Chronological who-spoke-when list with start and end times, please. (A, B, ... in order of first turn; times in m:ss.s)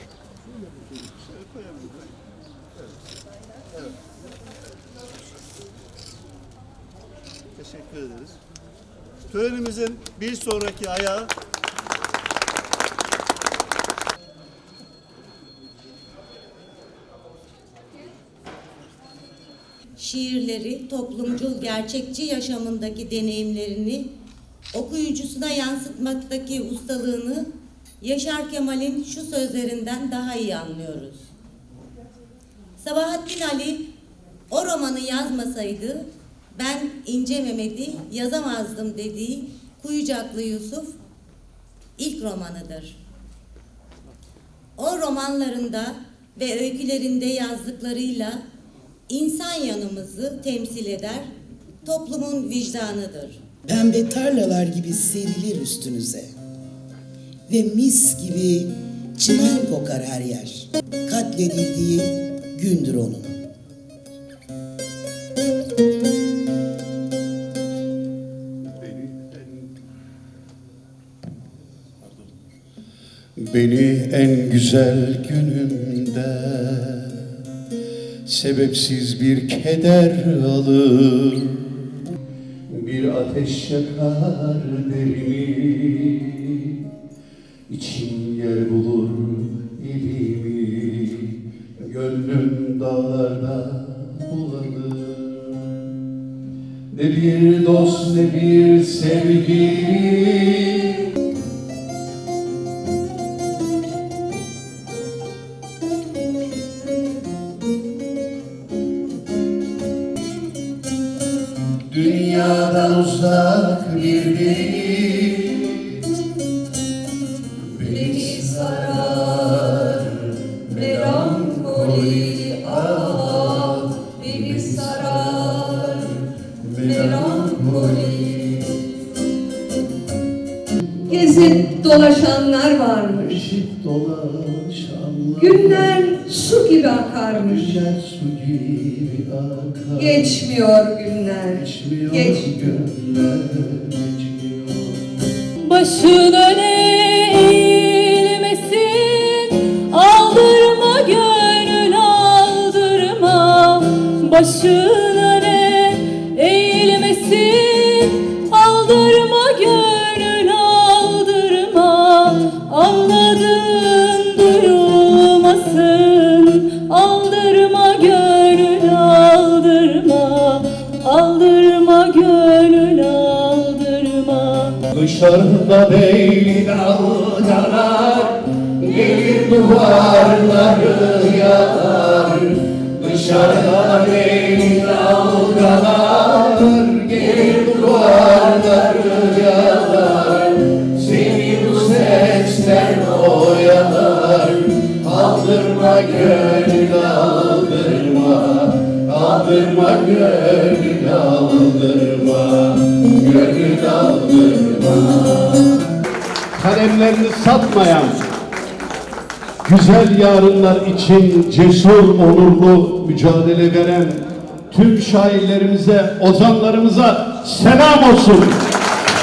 0:01.2-0:02.1 A
0:07.6-0:08.4 A
0:09.3-0:11.3 A
0:20.0-0:24.1 B
0:24.7-0:27.5 B
0:28.0-0:31.2 B
0:32.8-0:33.8 B
0:34.5-0:40.9 B
0:42.0-0:43.0 B
0:44.8-0:48.4 B
0:49.1-0:51.3 B
0:51.8-0:53.4 B
0:53.7-0:56.3 C
0:57.5-1:03.4 C
1:08.8-1:09.4 D
1:13.4-1:17.4 D
1:18.2-1:22.0 D
1:22.7-1:26.9 D
1:27.7-1:35.9 D
1:36.9-1:41.1 D
1:51.8-1:56.2 D
1:57.6-2:08.8 D
1:57.9-1:59.5 E
2:00.8-2:02.5 E
2:04.1-2:06.0 E
2:06.9-2:08.0 E
2:10.7-2:11.9 D
2:11.1-2:13.4 E
2:13.0-2:16.2 D
2:15.4-2:17.8 E
2:17.1-2:20.5 D
2:20.0-2:22.5 E
2:21.4-2:25.3 D
2:25.6-2:54.8 F
2:54.9-3:25.6 D
3:26.5-3:28.3 D
3:29.6-3:38.6 D